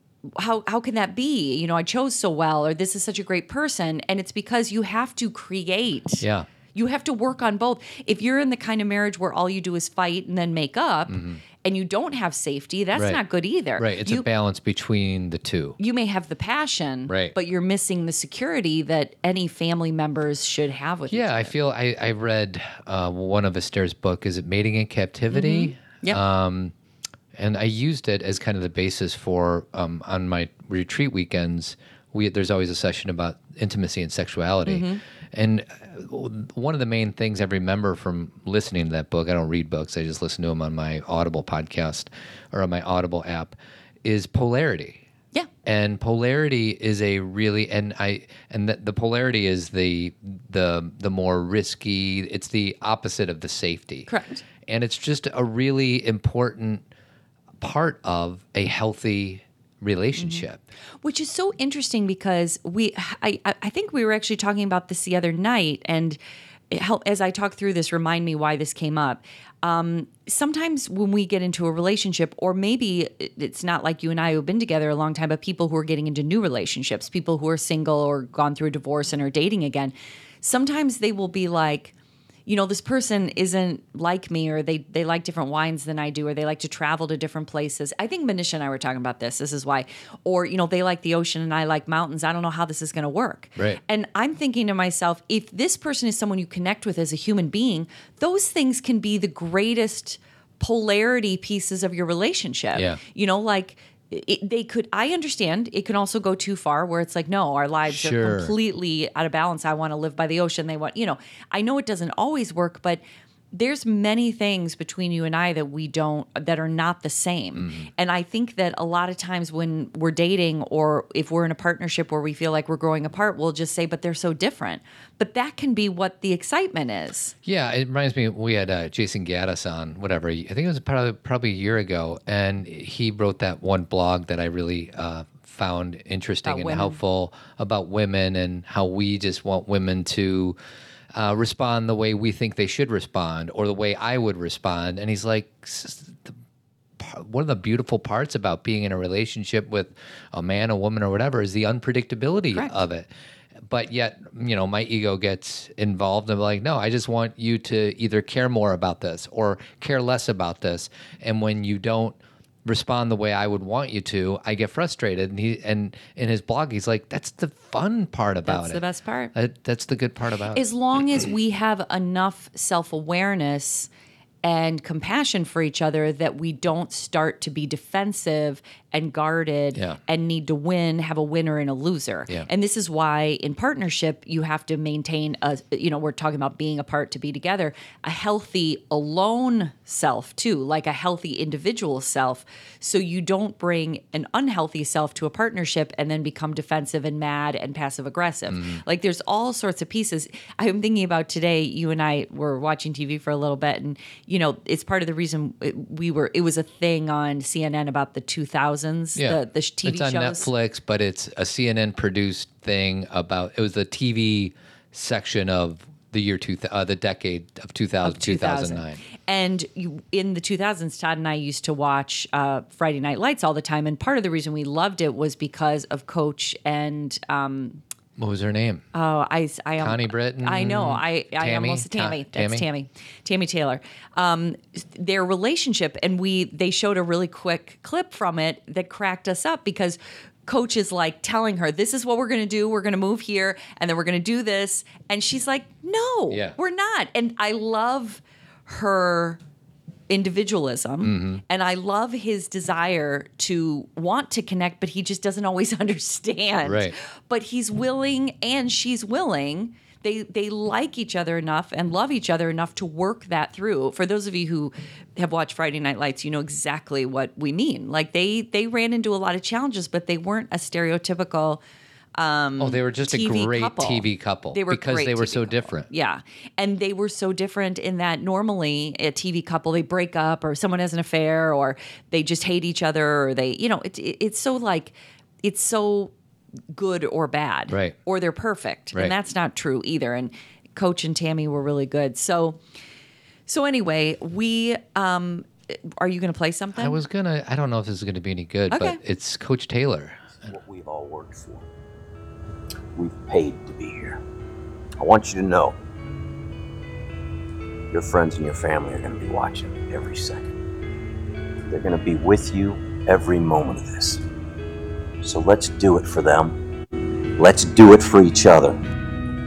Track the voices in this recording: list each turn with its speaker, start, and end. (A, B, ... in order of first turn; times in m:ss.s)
0:00.4-0:14.2 A
0:06.2-0:06.5 B
0:11.1-0:11.4 B
0:13.0-0:13.2 B
0:13.8-0:15.8 B
0:15.8-0:21.5 A
0:17.1-0:17.3 B
0:21.1-0:26.7 B
0:25.3-0:26.2 A
0:27.3-0:45.0 B
0:34.6-0:35.0 A
0:45.6-0:54.1 B
0:54.1-0:54.4 A
0:54.6-0:56.8 B
0:57.6-1:00.6 B
1:00.2-1:00.4 A
1:01.0-1:06.2 A
1:06.7-1:21.9 A
1:22.4-2:07.3 A
1:42.7-1:43.0 B
1:47.9-1:48.5 B
1:57.6-1:57.9 B
2:07.4-2:20.6 B
2:16.4-2:17.0 A
2:21.1-2:26.3 B
2:27.0-2:33.1 B
2:33.6-2:48.8 B
2:48.4-2:49.3 A
2:49.3-2:50.6 B
2:50.5-2:53.9 A
2:54.4-3:30.5 A
3:18.5-3:18.8 B
3:29.2-3:39.0 B
3:38.0-3:47.8 A
3:48.2-3:48.8 B
3:48.9-4:09.4 A
3:49.8-3:52.6 B
4:06.3-4:06.5 B
4:10.1-4:31.6 A
4:11.0-4:11.4 B
4:16.6-4:16.9 B
4:32.2-4:46.1 A
4:32.6-4:35.9 B
4:46.7-4:52.6 A
4:47.7-4:47.9 B
4:53.5-4:57.0 A
4:56.8-5:00.3 B
4:58.7-4:59.0 A
5:00.4-5:01.7 C
5:02.9-5:04.2 C
5:05.0-5:05.8 C
5:07.9-5:10.5 C
5:11.6-5:14.2 C
5:15.2-5:16.6 C
5:17.4-5:18.8 C